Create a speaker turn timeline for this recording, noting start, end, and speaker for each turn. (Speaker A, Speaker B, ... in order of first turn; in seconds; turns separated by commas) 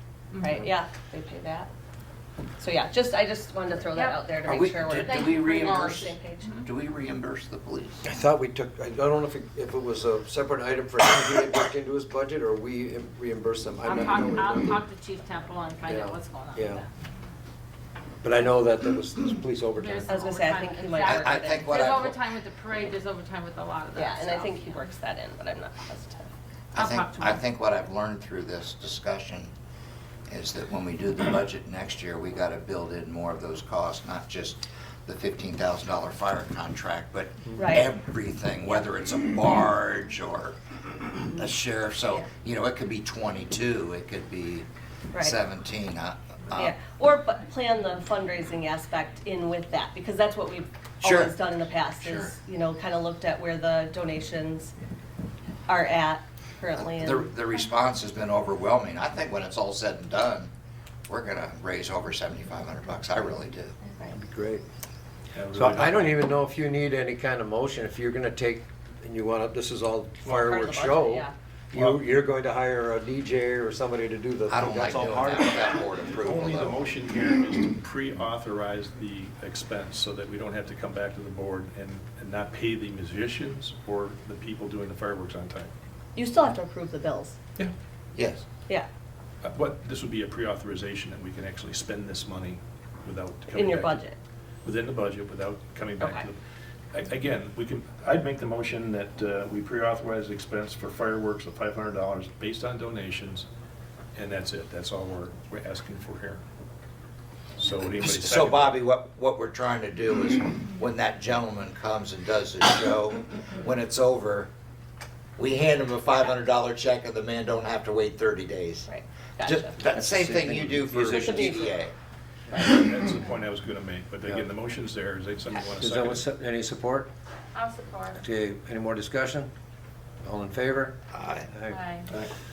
Speaker A: 0.3-0.7, Speaker B: 0.4-1.7, Speaker B: 2.6-6.6, Speaker A: 3.9-4.2, Speaker C: 4.5-8.0, Speaker A: 5.0-6.6, Speaker D: 8.0-14.8, Speaker A: 13.8-16.9, Speaker D: 15.9-16.8, Speaker D: 18.2-20.2, Speaker A: 19.8-24.8, Speaker B: 20.1-21.7, Speaker C: 21.0-22.2, Speaker B: 23.9-26.3, Speaker C: 26.7-29.5, Speaker A: 26.8-27.4, Speaker C: 30.3-40.6, Speaker B: 37.5-37.9, Speaker C: 41.3-44.7, Speaker C: 45.2-46.8, Speaker B: 46.5-54.7, Speaker C: 51.0-51.3, Speaker C: 52.0-52.3, Speaker B: 55.7-57.3, Speaker C: 56.8-60.5, Speaker C: 61.1-63.8, Speaker B: 63.9-64.2, Speaker D: 64.1-64.6, Speaker E: 65.3-66.2, Speaker D: 65.5-75.7, Speaker B: 70.2-71.3, Speaker C: 74.5-76.8, Speaker E: 76.2-85.7, Speaker B: 86.2-87.4, Speaker C: 88.2-88.5, Speaker E: 89.4-94.0, Speaker B: 93.5-94.2, Speaker E: 94.7-96.4, Speaker B: 96.0-96.3, Speaker E: 96.9-103.5, Speaker E: 104.2-106.4, Speaker E: 107.6-108.8, Speaker C: 108.0-114.5, Speaker C: 115.4-118.9, Speaker B: 118.9-119.8, Speaker C: 119.4-121.9, Speaker D: 119.8-121.7, Speaker B: 121.1-121.7, Speaker E: 122.5-126.3, Speaker D: 125.8-127.1, Speaker A: 127.5-128.2, Speaker D: 128.2-129.5, Speaker D: 130.2-131.8, Speaker C: 131.1-131.5, Speaker A: 131.7-132.1